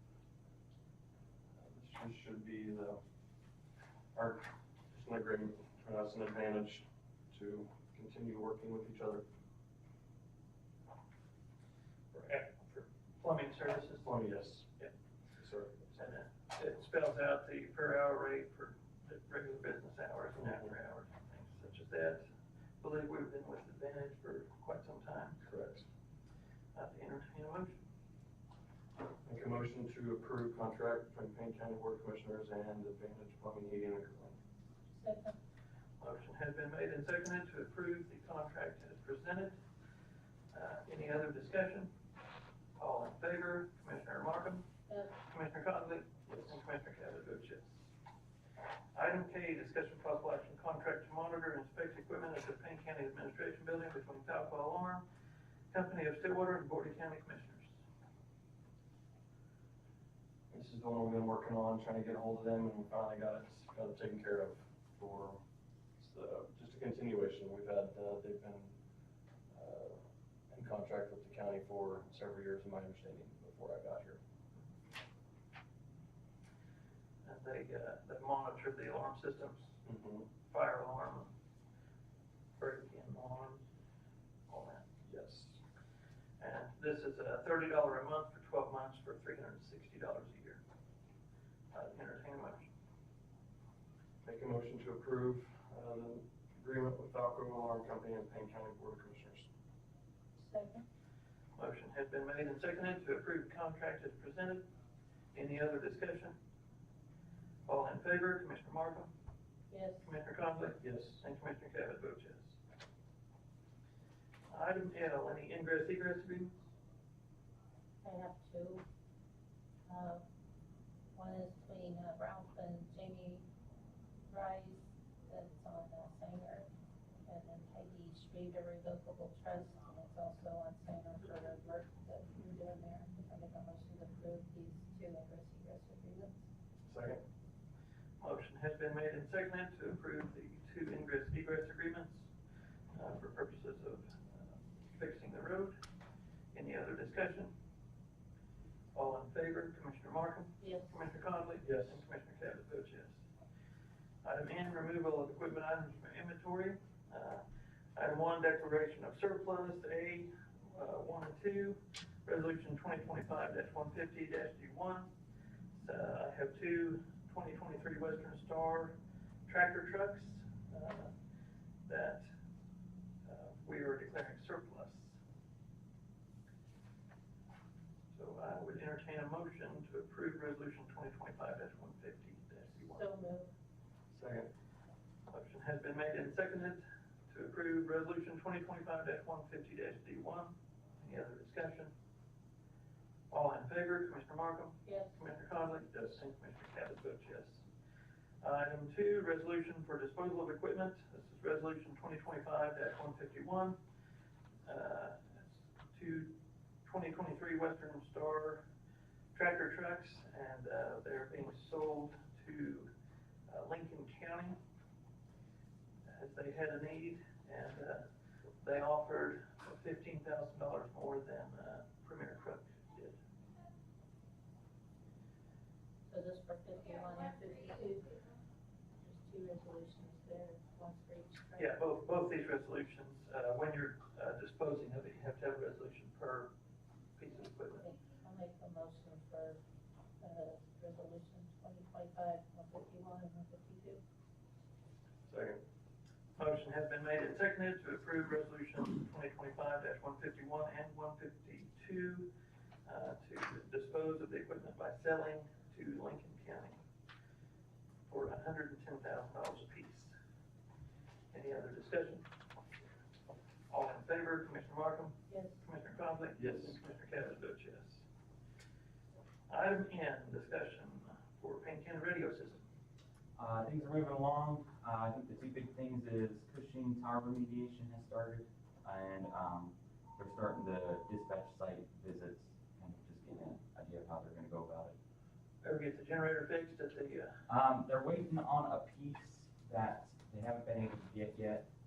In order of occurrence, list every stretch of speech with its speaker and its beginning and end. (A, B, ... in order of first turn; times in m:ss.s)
0:01.6-0:03.0 A
0:04.1-0:09.2 A
0:12.3-0:14.1 B
0:14.0-0:14.7 A
0:15.4-0:16.0 A
0:16.0-0:22.2 B
0:20.4-0:20.7 A
0:22.8-0:25.4 B
0:25.4-0:25.9 A
0:26.7-0:27.8 B
0:29.2-0:34.4 A
0:34.9-0:35.4 C
0:36.0-0:39.5 B
0:40.5-0:41.9 B
0:42.8-0:44.7 B
0:44.9-0:45.2 C
0:45.3-0:47.8 B
0:48.9-0:55.0 B
0:55.7-0:57.7 B
1:00.5-1:05.4 A
1:06.0-1:08.7 A
1:09.5-1:10.0 A
1:10.5-1:14.2 A
1:17.2-1:19.8 B
1:19.8-1:20.3 A
1:20.5-1:21.3 B
1:22.6-1:23.6 B
1:24.5-1:24.9 B
1:25.1-1:25.6 A
1:26.4-1:30.6 B
1:31.7-1:32.7 B
1:34.2-1:39.5 A
1:40.4-1:40.8 C
1:41.6-1:44.7 B
1:45.3-1:46.4 B
1:47.7-1:49.1 B
1:49.7-1:50.1 C
1:50.0-1:52.6 B
1:50.8-1:51.2 A
1:54.5-1:56.5 B
1:58.0-1:58.8 C
1:59.9-2:00.2 C
2:01.1-2:03.4 C
2:04.3-2:06.7 C
2:07.2-2:16.4 C
2:16.8-2:17.2 A
2:18.2-2:22.3 B
2:22.9-2:25.8 B
2:26.5-2:27.5 B
2:28.9-2:33.2 B
2:30.6-2:31.0 C
2:31.6-2:32.0 A
2:34.2-2:37.4 B
2:38.0-2:45.1 B
2:45.7-2:51.1 B
2:51.9-2:52.3 B
2:53.2-2:55.2 B
2:58.1-3:03.0 B
3:02.8-3:03.5 C
3:04.1-3:04.5 A
3:05.3-3:11.9 B
3:13.3-3:17.6 B
3:14.8-3:15.2 C
3:18.4-3:23.8 B
3:24.6-3:28.7 B
3:29.3-3:32.9 B
3:33.5-3:34.6 B
3:36.0-3:38.0 B
3:38.6-3:43.2 B
3:46.1-3:48.1 C
3:49.0-3:51.8 C
3:51.6-3:56.5 B
3:57.2-3:57.8 B
3:57.8-3:59.6 C
4:00.2-4:04.0 C
4:05.3-4:05.6 A
4:06.4-4:12.3 B
4:12.8-4:16.8 B
4:18.1-4:20.1 B
4:21.3-4:22.2 B
4:23.7-4:28.0 B
4:25.3-4:25.6 C
4:26.4-4:26.8 A
4:29.5-4:32.6 B
4:33.4-4:45.0 D
4:45.6-4:47.4 B
4:47.5-4:51.7 D